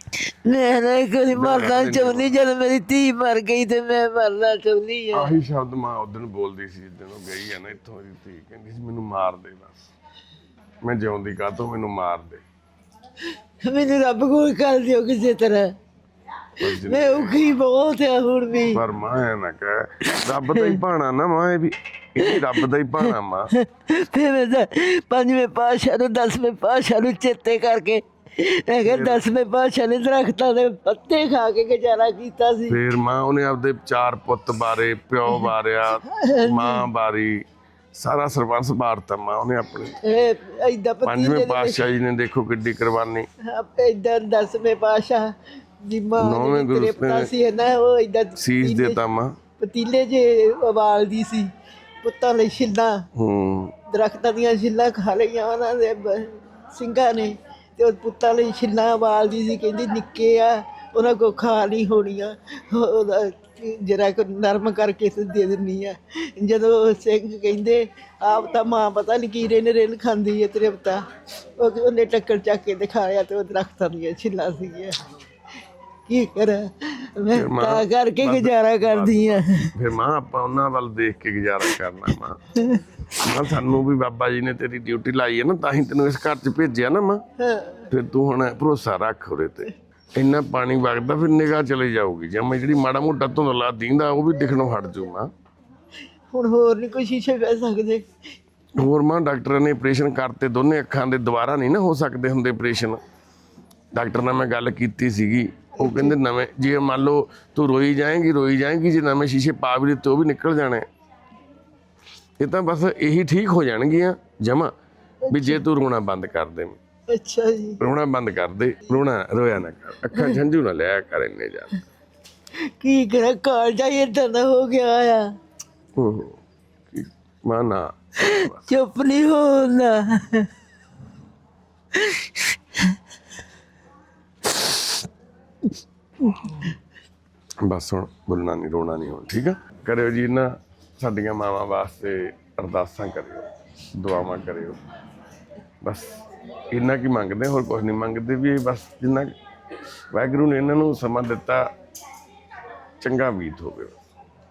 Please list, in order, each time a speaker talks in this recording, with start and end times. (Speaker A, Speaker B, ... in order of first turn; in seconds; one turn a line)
Speaker A: 0.2-5.3
Speaker B: 1.3-2.3
Speaker B: 5.1-9.7
Speaker B: 10.8-12.4
Speaker A: 13.6-15.7
Speaker B: 16.6-17.4
Speaker A: 16.6-18.8
Speaker B: 18.7-23.5
Speaker A: 22.2-32.8
Speaker B: 28.8-29.2
Speaker B: 32.7-37.4
Speaker A: 35.3-36.9
Speaker B: 37.9-39.9
Speaker A: 40.0-41.8
Speaker B: 41.0-43.3
Speaker A: 43.4-49.0
Speaker B: 46.2-47.3
Speaker B: 48.4-49.3
Speaker A: 49.6-51.5
Speaker A: 52.0-53.0
Speaker B: 53.1-53.7
Speaker A: 53.9-71.0
Speaker A: 71.6-75.0
Speaker A: 76.0-79.7
Speaker B: 77.3-82.4
Speaker A: 82.5-83.0
Speaker B: 83.1-87.2
Speaker A: 87.4-87.9
Speaker B: 87.9-95.3
Speaker A: 96.3-98.0
Speaker B: 98.8-103.0
Speaker B: 103.9-110.8
Speaker A: 105.8-106.1
Speaker B: 112.4-114.7
Speaker A: 115.3-115.6
Speaker B: 115.3-116.8
Speaker A: 117.1-117.8
Speaker B: 117.8-121.8
Speaker A: 122.8-125.3
Speaker B: 126.0-126.4
Speaker B: 126.9-128.6
Speaker A: 128.2-130.5
Speaker A: 131.9-133.0
Speaker A: 136.3-136.7
Speaker B: 137.6-144.8
Speaker B: 145.8-146.2
Speaker B: 146.7-149.3
Speaker B: 150.1-151.7
Speaker B: 153.0-153.9